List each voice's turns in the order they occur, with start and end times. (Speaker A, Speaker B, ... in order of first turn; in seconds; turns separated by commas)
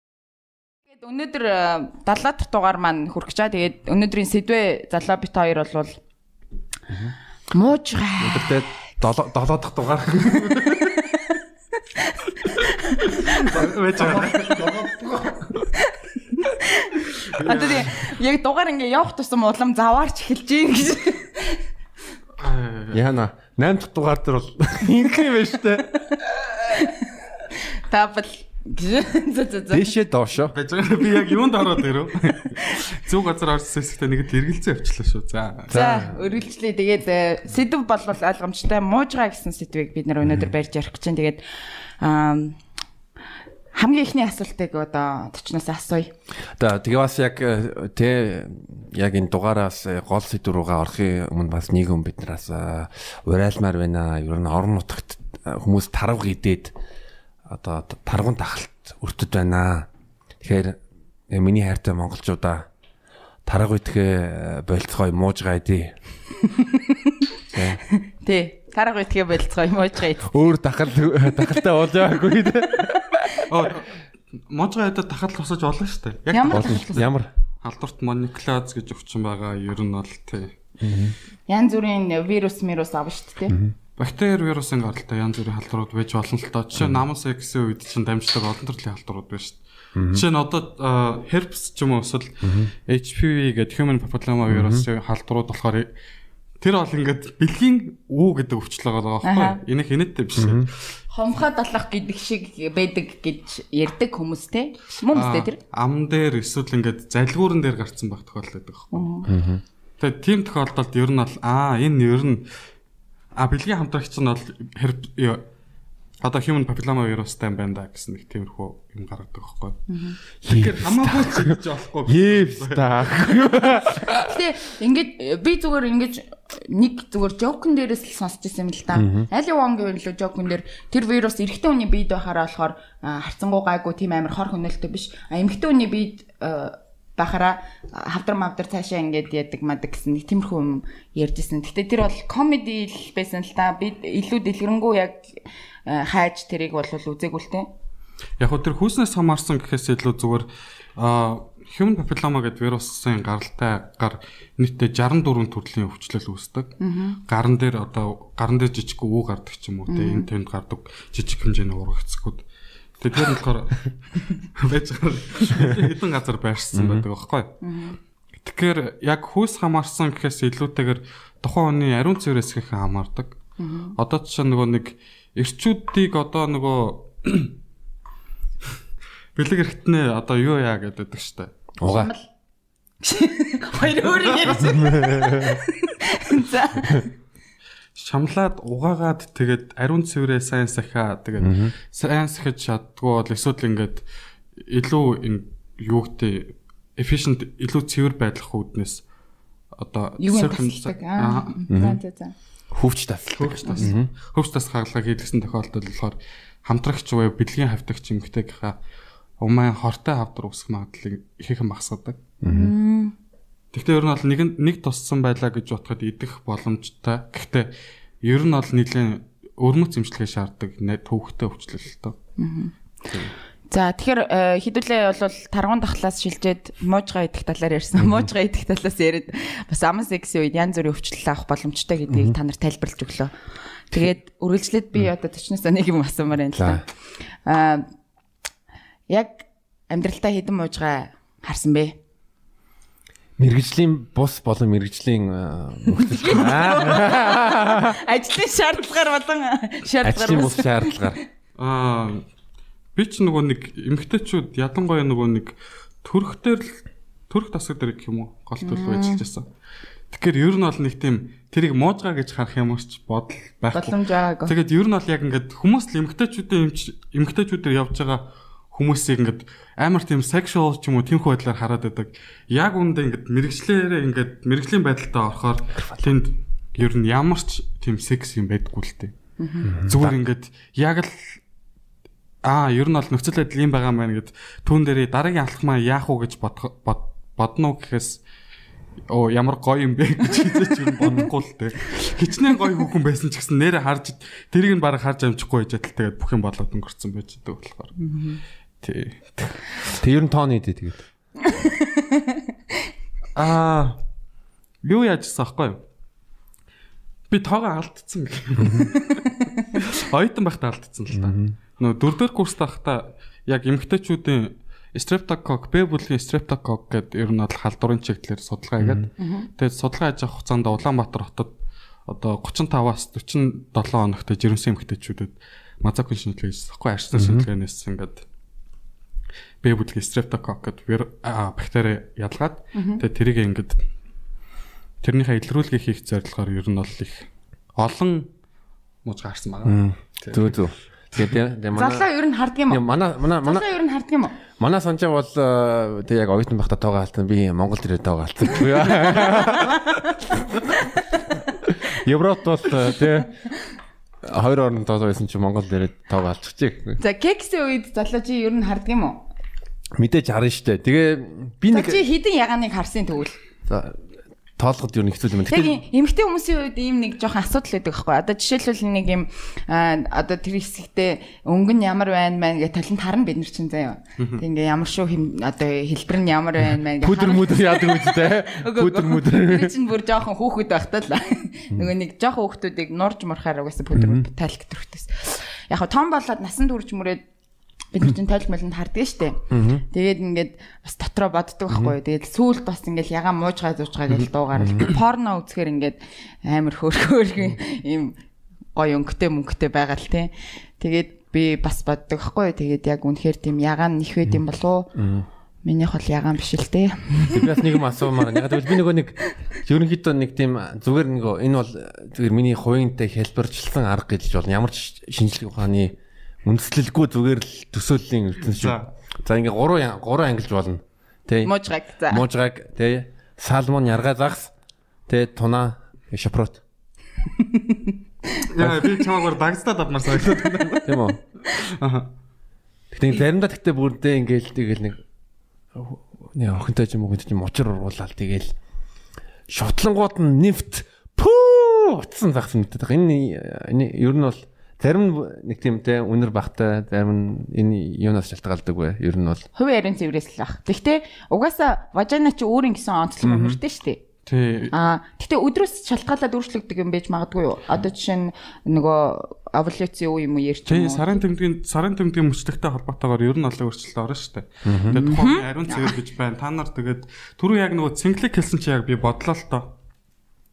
Speaker A: 0.9-6.0, Speaker A: 7.5-8.6, Speaker B: 8.2-10.9, Speaker A: 10.5-11.2, Speaker A: 11.9-14.8, Speaker C: 13.3-14.9, Speaker A: 15.5-21.6, Speaker C: 17.4-18.0, Speaker C: 22.4-23.0, Speaker B: 22.9-26.0, Speaker A: 26.1-27.1, Speaker A: 27.8-29.9, Speaker B: 29.7-30.5, Speaker C: 30.5-35.8, Speaker B: 35.7-36.1, Speaker A: 35.7-41.4, Speaker A: 42.0-42.6, Speaker A: 43.7-46.1, Speaker B: 46.5-56.7, Speaker B: 57.5-59.9, Speaker B: 60.4-60.8, Speaker B: 61.3-62.6, Speaker B: 63.5-65.9, Speaker A: 66.4-67.1, Speaker B: 67.5-67.8, Speaker A: 68.0-70.3, Speaker B: 70.2-73.2, Speaker C: 73.5-73.9, Speaker C: 74.5-77.1, Speaker A: 76.3-77.1, Speaker B: 76.5-77.3, Speaker C: 77.6-80.5, Speaker B: 80.8-81.2, Speaker A: 81.5-83.6, Speaker B: 83.5-83.7, Speaker C: 84.0-89.6, Speaker B: 86.8-87.0, Speaker B: 89.9-90.2, Speaker C: 90.1-95.9, Speaker B: 92.4-92.7, Speaker B: 94.5-94.9, Speaker C: 96.6-100.7, Speaker A: 99.2-99.6, Speaker B: 100.3-100.7, Speaker A: 101.1-105.6, Speaker C: 105.1-109.1, Speaker A: 108.9-109.3, Speaker B: 109.3-109.6, Speaker C: 110.0-112.5, Speaker C: 113.3-115.4, Speaker C: 116.2-119.8, Speaker A: 119.9-120.2, Speaker C: 120.4-123.3, Speaker B: 120.5-124.3, Speaker A: 124.2-147.7, Speaker B: 128.9-129.3, Speaker C: 148.4-156.8, Speaker A: 156.8-157.2, Speaker C: 157.3-162.4, Speaker A: 159.9-160.3, Speaker C: 163.0-167.5, Speaker B: 166.7-167.1, Speaker A: 167.6-168.0, Speaker C: 168.4-173.4, Speaker A: 173.6-173.9, Speaker C: 174.0-177.6, Speaker C: 179.3-181.5, Speaker B: 181.8-182.1, Speaker A: 181.8-182.3, Speaker A: 183.0-187.1, Speaker C: 184.2-184.7, Speaker B: 184.8-185.6, Speaker C: 187.9-194.1, Speaker B: 191.4-191.7, Speaker C: 194.6-199.0, Speaker C: 199.8-201.7, Speaker A: 200.2-202.3, Speaker B: 201.7-202.0, Speaker B: 202.7-204.1, Speaker C: 203.4-208.8, Speaker C: 209.4-212.2, Speaker B: 212.4-212.7, Speaker A: 212.5-213.1, Speaker C: 213.7-217.7, Speaker C: 218.2-222.1, Speaker A: 222.4-222.8, Speaker A: 223.7-233.3, Speaker B: 232.1-232.4, Speaker A: 233.9-237.8, Speaker B: 236.5-236.8, Speaker A: 239.1-241.9, Speaker B: 243.4-247.9, Speaker A: 245.9-251.2, Speaker B: 250.0-251.2, Speaker C: 251.6-252.2, Speaker C: 252.9-259.4, Speaker A: 258.6-259.2, Speaker C: 260.1-279.1, Speaker A: 263.7-264.5, Speaker B: 275.8-276.0, Speaker A: 279.4-279.7, Speaker B: 279.6-280.1, Speaker C: 279.8-281.4, Speaker C: 282.4-288.2, Speaker C: 289.1-297.9, Speaker A: 298.0-298.4, Speaker C: 298.8-300.0, Speaker B: 300.0-301.0, Speaker A: 301.4-302.4, Speaker C: 303.3-304.0, Speaker C: 304.8-305.8, Speaker C: 307.3-321.5, Speaker B: 308.6-308.9, Speaker B: 311.1-311.5, Speaker B: 318.8-319.1, Speaker A: 319.2-319.5, Speaker C: 322.1-328.2, Speaker B: 327.1-327.5, Speaker C: 329.6-333.8, Speaker A: 332.7-333.0, Speaker C: 335.0-338.3, Speaker C: 339.0-340.6, Speaker B: 339.6-342.1, Speaker A: 341.7-344.4, Speaker B: 342.7-343.6, Speaker B: 344.5-350.0, Speaker A: 349.2-349.8, Speaker B: 351.7-353.3, Speaker B: 354.2-357.0, Speaker A: 357.0-359.3, Speaker B: 360.0-362.0, Speaker A: 361.7-363.3, Speaker B: 363.7-364.0, Speaker B: 364.6-365.8, Speaker A: 365.4-387.2, Speaker B: 377.0-379.7, Speaker B: 383.9-384.2, Speaker A: 387.9-398.2, Speaker B: 389.5-389.8, Speaker B: 391.7-391.9, Speaker B: 394.6-394.8, Speaker A: 398.7-404.9, Speaker B: 404.9-405.3, Speaker A: 405.6-407.6, Speaker B: 407.3-421.5, Speaker C: 418.4-418.9, Speaker A: 421.4-422.2, Speaker B: 422.1-424.5, Speaker B: 425.1-426.6, Speaker A: 427.4-427.9, Speaker C: 428.5-432.1, Speaker B: 428.6-428.9, Speaker B: 430.4-431.2, Speaker B: 432.9-435.0, Speaker B: 435.7-438.5, Speaker B: 439.5-449.4, Speaker A: 449.5-454.0, Speaker B: 453.2-453.6, Speaker C: 454.2-454.7, Speaker A: 454.7-461.2, Speaker C: 460.7-469.7, Speaker B: 464.6-465.0, Speaker A: 464.9-465.9